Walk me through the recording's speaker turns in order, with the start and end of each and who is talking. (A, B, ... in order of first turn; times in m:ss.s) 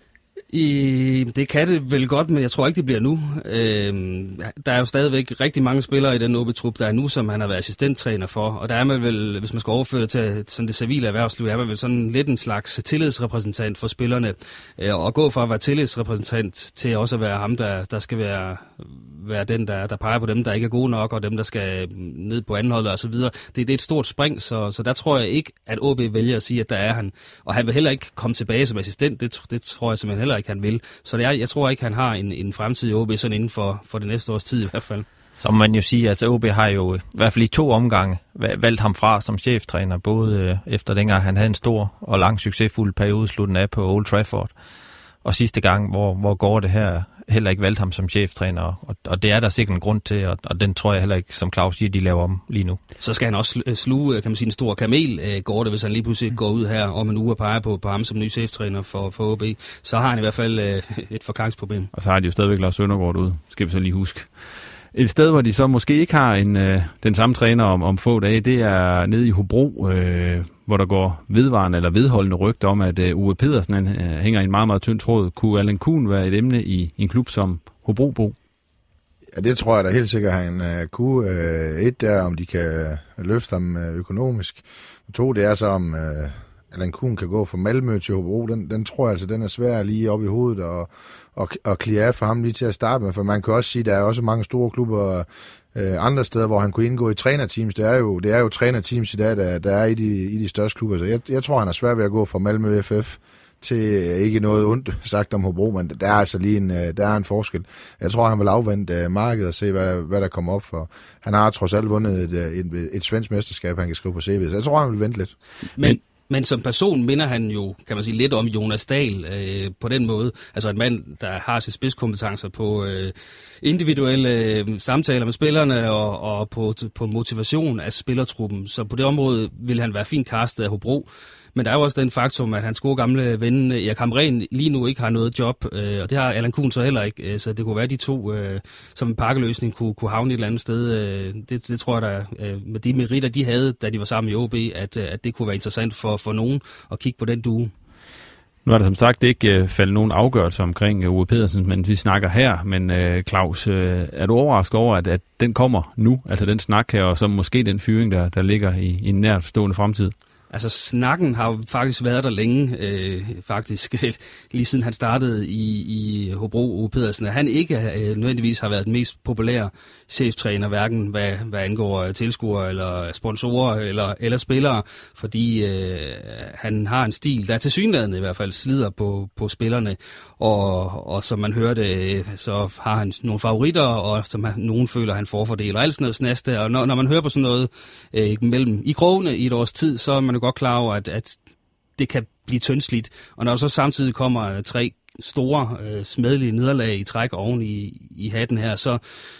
0:00.5-0:35.0 A
0:35.4-0:44.5 B
0:45.2-0:52.8 B
0:53.0-1:01.9 A
1:01.9-1:18.4 C
1:19.4-1:55.3 D
1:55.8-2:27.7 A
2:28.6-2:40.1 C
2:40.5-3:11.4 A
3:12.0-3:19.0 A